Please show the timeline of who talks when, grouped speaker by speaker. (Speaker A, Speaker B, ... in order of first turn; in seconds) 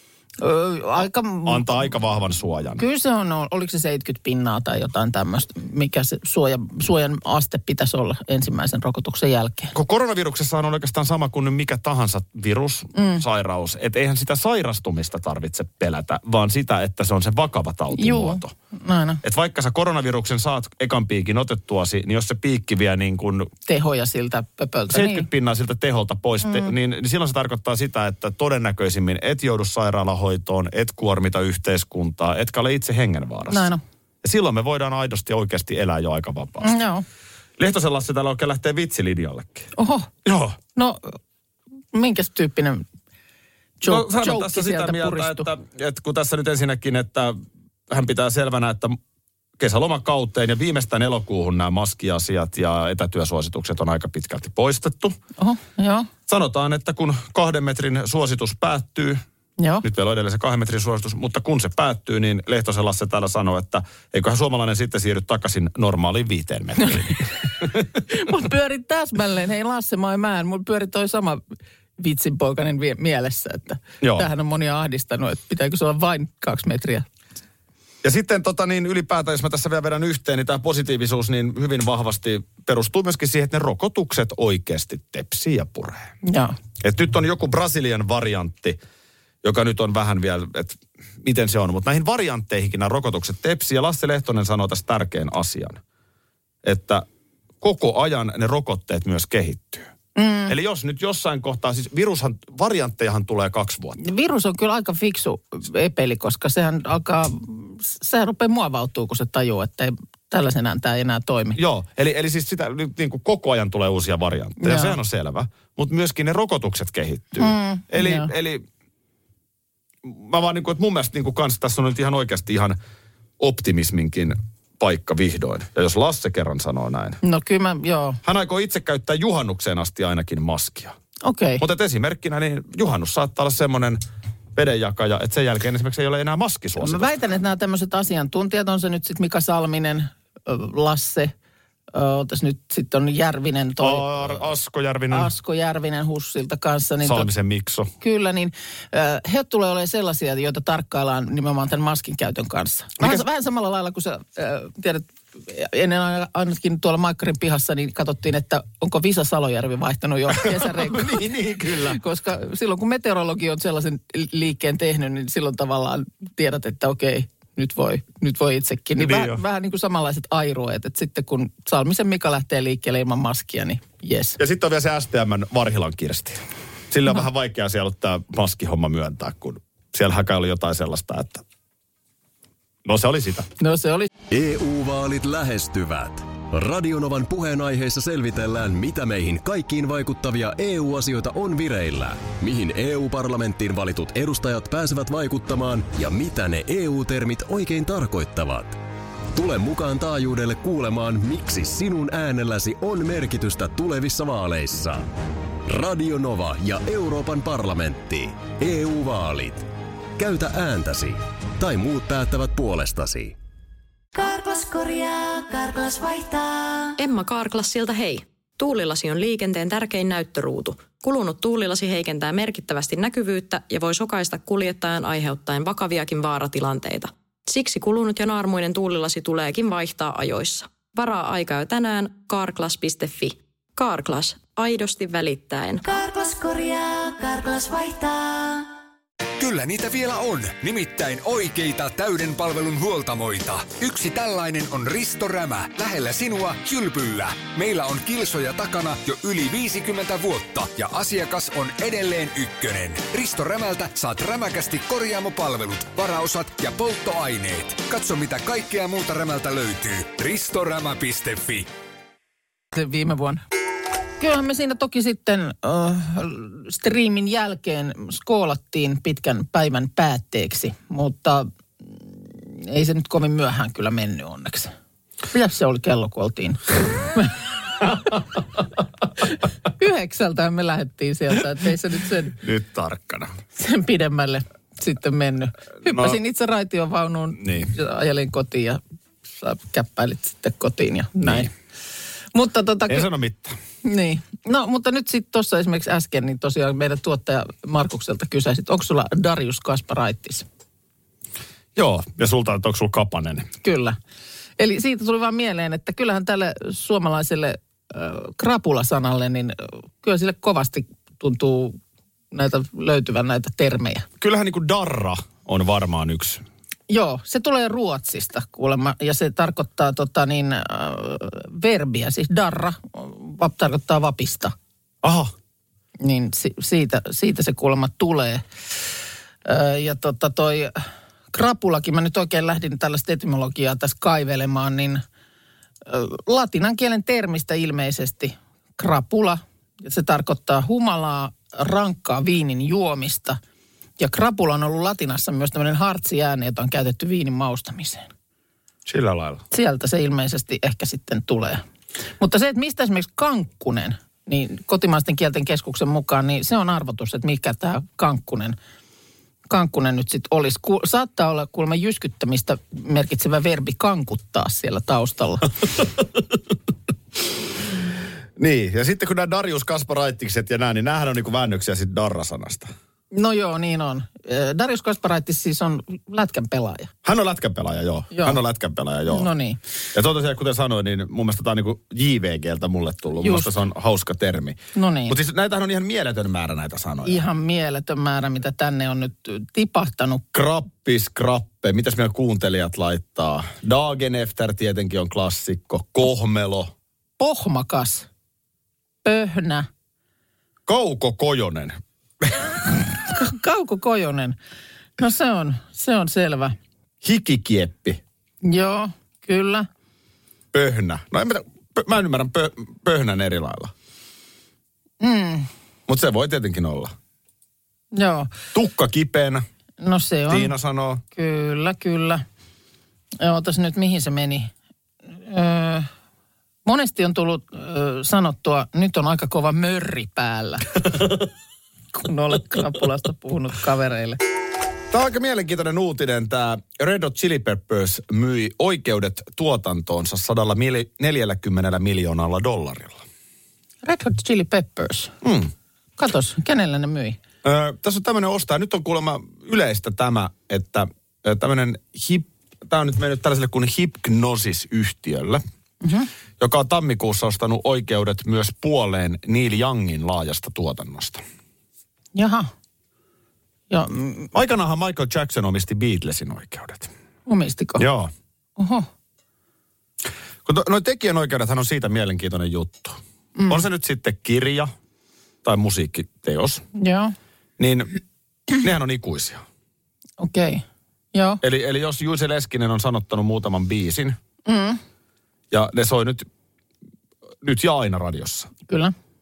Speaker A: 0.4-1.9, 2.8-9.7, 12.9-13.2, 17.9-19.2, 23.7-25.3, 26.4-26.7, 33.5-33.8, 36.6-37.0, 39.8-40.1, 40.7-41.2, 41.9-42.8, 43.8-45.5, 55.4-56.1, 59.6-59.8, 68.1-71.4, 72.0-77.1, 86.2-86.5, 100.2-100.5, 104.0-111.6, 114.6-115.0, 117.4-118.3, 127.2-128.2, 131.2-131.6, 136.8-141.3, 141.9-144.4, 145.1-147.3, 148.0-174.4, 183.6-184.1, 262.7-263.4, 264.2-274.7, 275.3-278.2, 279.8-282.4, 283.6-288.8, 289.3-291.5, 292.3-293.1, 293.8-300.4, 303.6-304.0, 304.6-311.8, 312.3-314.1, 316.9-324.5, 326.0-328.4, 329.4-330.8, 331.3-335.0, 335.9-343.4, 344.0-348.1, 349.5-351.6, 352.2-358.6, 359.5-365.5, 373.1-376.9, 378.1-378.4, 379.1-379.6, 383.2-383.5, 384.7-385.2, 387.0-390.2, 397.2-398.1, 399.0-399.7, 402.9-404.4, 405.0-406.5, 408.4-409.7, 415.0-415.5, 417.9-418.3, 419.8-420.5, 421.1-422.2, 423.2-424.5, 425.2-425.9, 426.6-430.8, 431.9-434.2, 443.8-445.1, 446.0-447.2, 455.8-456.1, 462.1-462.5, 463.7-464.3, 467.3-467.8, 468.6-468.9, 473.4-473.6, 476.7-477.1, 480.2-481.4, 484.4-484.8, 488.7-488.9
Speaker B: 1.4-2.8, 9.7-18.5, 19.2-23.5, 24.9-33.7, 34.2-36.8, 37.6-39.7, 40.2-40.6, 43.8-47.4, 47.9-49.0, 49.6-55.1, 56.3-59.2, 59.8-67.8, 74.0-74.3, 78.0-86.1, 86.8-88.8, 89.4-95.8, 96.6-97.0, 97.6-99.9, 100.5-104.0, 111.5-118.6, 120.0-122.8, 123.4-127.2, 128.2-130.9, 131.6-134.0, 134.5-137.1, 143.8-145.3, 147.0-147.9, 153.0-153.2, 160.3-162.0, 169.0-169.4, 174.4-181.4, 182.8-183.5, 282.4-283.3, 285.8-286.2, 287.4-287.7, 291.2-291.5, 292.9-293.6, 301.7-303.5, 314.2-316.4, 325.0-325.3, 348.9-349.4, 368.4-372.7, 377.0-379.3, 379.9-387.2, 390.3-396.7, 400.7-402.4, 407.0-408.0, 410.5-413.7, 415.9-416.9, 418.5-419.4, 420.3-421.0, 434.9-443.0, 445.2-445.5, 447.4-455.4, 456.4-461.2, 464.3-466.9, 467.8-468.1, 470.4-473.0, 473.5-474.7, 475.4-476.6, 477.6-477.9, 478.6-479.4, 481.4-484.2, 485.5-486.3, 487.4-488.5
Speaker C: 184.3-198.8, 199.3-205.1, 205.7-213.3
Speaker D: 214.1-216.9, 235.8-238.7
Speaker E: 217.0-235.8
Speaker F: 239.4-261.7